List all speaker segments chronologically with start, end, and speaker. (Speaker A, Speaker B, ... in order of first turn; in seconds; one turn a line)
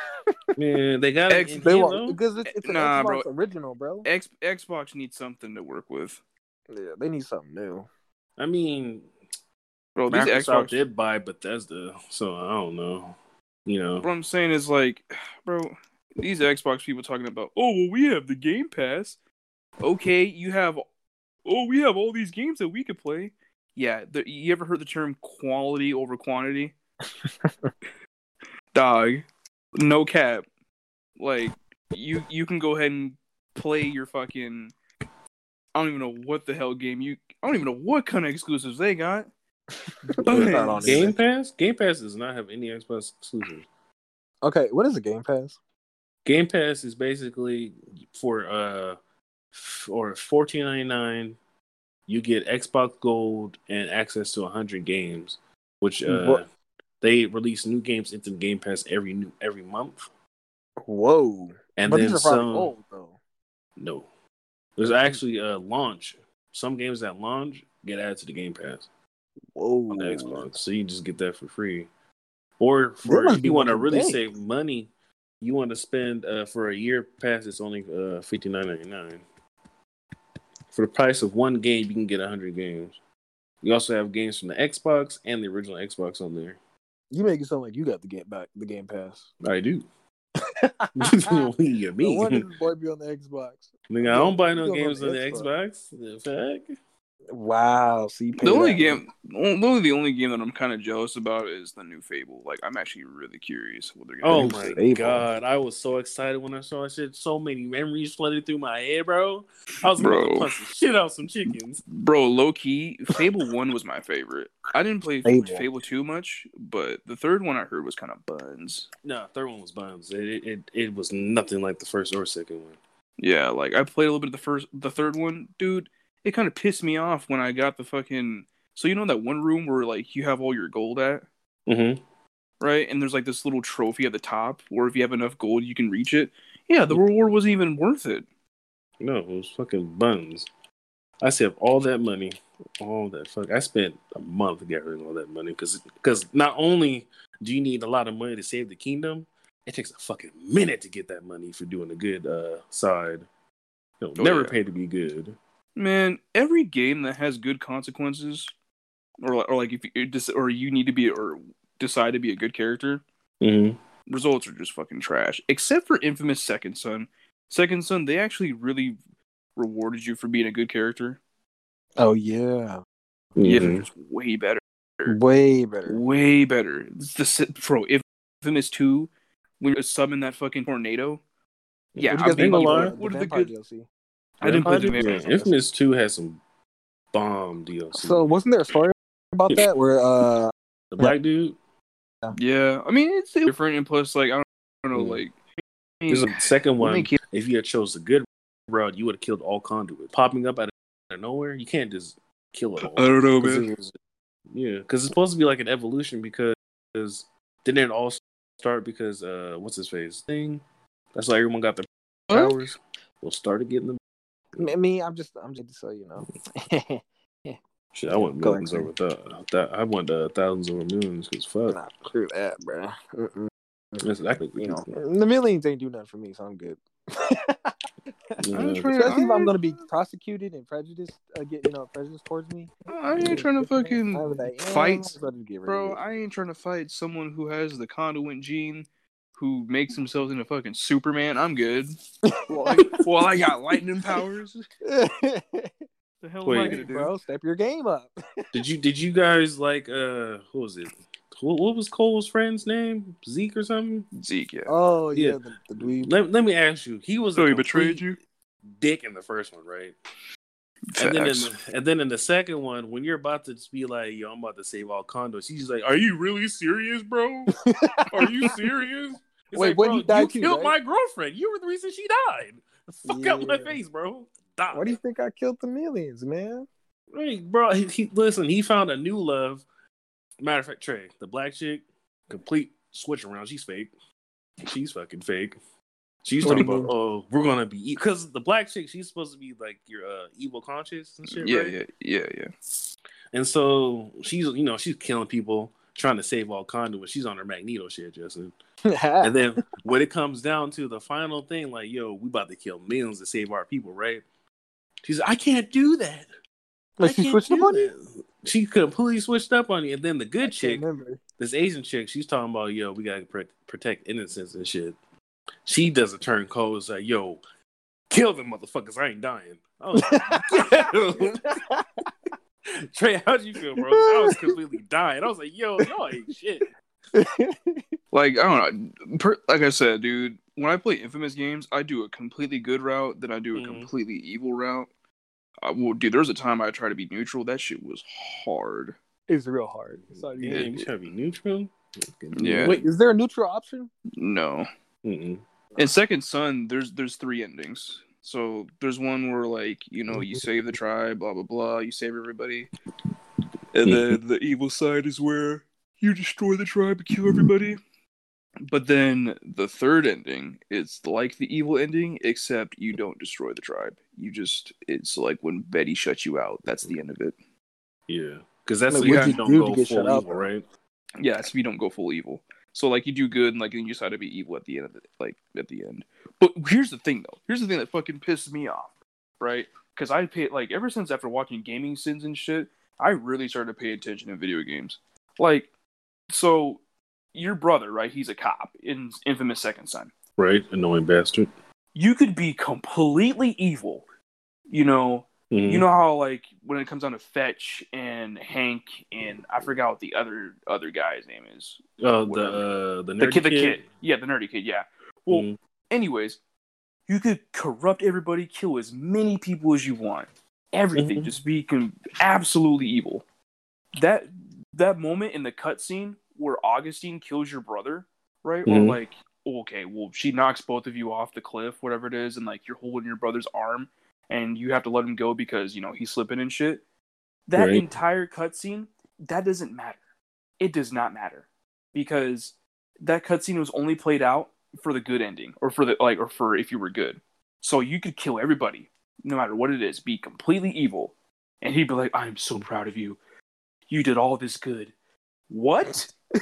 Speaker A: 0.6-2.2
Speaker B: 1.3-1.6
Speaker C: 1.6-4.1
Speaker B: 2.5-3.2
Speaker B: 4.0-6.2
Speaker C: 6.7-7.9
Speaker A: 8.4-9.1
Speaker B: 9.9-10.8
Speaker A: 10.1-13.1
Speaker A: 13.7-14.1
Speaker B: 14.0-19.1
Speaker B: 19.8-20.8
Speaker B: 21.4-26.7
Speaker C: 27.2-27.7
Speaker B: 28.7-29.2
Speaker B: 29.8-30.4
Speaker B: 31.2-34.7
Speaker B: 35.7-39.3
Speaker C: 39.9-41.1
Speaker A: 40.2-43.7
Speaker B: 40.2-41.1
Speaker C: 44.4-45.5
Speaker A: 46.2-49.0
Speaker A: 49.5-51.4
Speaker A: 52.1-56.4
Speaker C: 56.0-56.4
Speaker A: 57.0-60.1
Speaker C: 60.8-63.2
Speaker A: 61.8-62.7
Speaker A: 63.8-64.1
Speaker A: 64.8-68.9
Speaker C: 64.8-65.2
Speaker C: 69.5-70.4
Speaker A: 69.9-71.9
Speaker A: 72.6-74.9
Speaker C: 73.0-74.2
Speaker A: 75.4-79.2
Speaker A: 80.7-83.0
Speaker A: 83.6-86.6
Speaker C: 87.1-89.3
Speaker A: 89.4-89.8
Speaker C: 90.5-91.4
Speaker A: 91.0-92.5
Speaker C: 92.0-95.5
Speaker A: 93.9-96.7
Speaker C: 97.3-99.0
Speaker B: 98.4-104.8
Speaker A: 104.2-111.8
Speaker C: 104.3-105.2
Speaker B: 110.0-110.5
Speaker B: 111.9-118.9
Speaker C: 115.2-115.7
Speaker A: 119.0-122.8
Speaker B: 123.2-131.2
Speaker A: 131.7-132.0
Speaker B: 132.6-138.2
Speaker A: 139.0-140.5
Speaker A: 141.2-153.3
Speaker A: 154.0-155.3
Speaker B: 154.2-154.5
Speaker B: 155.8-158.5
Speaker B: 159.2-163.0
Speaker A: 163.4-163.8
Speaker B: 164.1-169.0
Speaker B: 169.6-171.2
Speaker C: 172.0-172.8
Speaker A: 173.3-173.8
Speaker B: 173.4-175.2
Speaker C: 175.1-176.0
Speaker B: 175.8-179.1
Speaker B: 179.6-181.2
Speaker A: 181.9-182.9
Speaker B: 182.0-183.5
Speaker C: 182.0-183.8
Speaker B: 184.4-185.2
Speaker A: 184.4-186.4
Speaker C: 184.6-185.5
Speaker A: 187.1-188.3
Speaker C: 187.9-191.1
Speaker A: 190.9-191.6
Speaker B: 192.3-195.4
Speaker A: 194.9-195.2
Speaker B: 196.0-197.2
Speaker A: 196.1-203.9
Speaker B: 202.8-203.7
Speaker A: 204.5-210.6
Speaker A: 211.1-214.0
Speaker B: 212.3-212.6
Speaker C: 214.6-217.6
Speaker A: 217.9-221.8
Speaker C: 218.1-218.9
Speaker C: 221.7-224.0
Speaker A: 224.0-224.9
Speaker C: 224.6-227.8
Speaker A: 228.4-229.0
Speaker B: 228.5-229.5
Speaker C: 228.9-236.0
Speaker B: 232.9-241.9
Speaker C: 242.2-244.2
Speaker B: 242.5-244.6
Speaker C: 244.8-245.8
Speaker B: 246.2-247.1
Speaker A: 246.4-246.8
Speaker C: 246.5-248.5
Speaker A: 248.5-254.1
Speaker B: 254.1-254.7
Speaker C: 254.7-256.1
Speaker A: 255.1-258.1
Speaker B: 257.4-258.2
Speaker A: 258.7-259.9
Speaker B: 260.9-261.5
Speaker A: 261.0-267.6
Speaker C: 267.6-268.5
Speaker A: 268.1-274.9
Speaker C: 269.5-270.7
Speaker C: 273.0-273.8
Speaker C: 274.7-276.7
Speaker A: 277.1-279.6
Speaker A: 280.4-283.9
Speaker A: 284.6-285.6
Speaker A: 286.2-291.8
Speaker B: 286.4-286.7
Speaker C: 286.4-286.9
Speaker B: 291.3-292.5
Speaker A: 293.3-298.5
Speaker C: 298.9-299.4
Speaker A: 299.2-304.2
Speaker A: 305.0-306.3
Speaker C: 307.0-307.9
Speaker A: 307.0-310.8
Speaker C: 310.4-311.2
Speaker A: 311.4-314.9
Speaker A: 315.6-317.4
Speaker A: 318.1-321.5
Speaker C: 320.0-320.7
Speaker C: 321.3-321.9
Speaker A: 322.9-326.7
Speaker C: 324.0-324.5
Speaker C: 327.1-327.8
Speaker B: 328.1-334.9
Speaker A: 333.5-333.9
Speaker B: 335.6-338.9
Speaker C: 339.3-340.7
Speaker A: 340.2-342.8
Speaker B: 340.5-340.9
Speaker B: 342.3-342.8
Speaker C: 342.6-343.9
Speaker B: 344.1-344.6
Speaker A: 345.0-345.4
Speaker B: 345.8-352.7
Speaker A: 350.2-350.4
Speaker B: 353.7-357.8
Speaker A: 353.9-354.2
Speaker B: 358.6-367.3
Speaker A: 368.1-370.6
Speaker C: 368.9-370.5
Speaker B: 369.0-369.4
Speaker B: 371.2-385.7
Speaker B: 386.3-386.8
Speaker B: 387.3-390.1
Speaker A: 390.4-391.5
Speaker B: 391.9-394.0
Speaker B: 394.7-402.6
Speaker A: 395.5-395.8
Speaker A: 399.2-399.7
Speaker A: 402.0-403.8
Speaker B: 403.2-406.4
Speaker A: 405.3-405.6
Speaker B: 407.1-413.2
Speaker A: 410.9-411.3
Speaker B: 414.0-426.8
Speaker A: 418.6-419.0
Speaker B: 427.5-430.0
Speaker A: 427.5-427.9
Speaker B: 430.6-443.2
Speaker B: 443.9-444.9
Speaker B: 445.5-446.1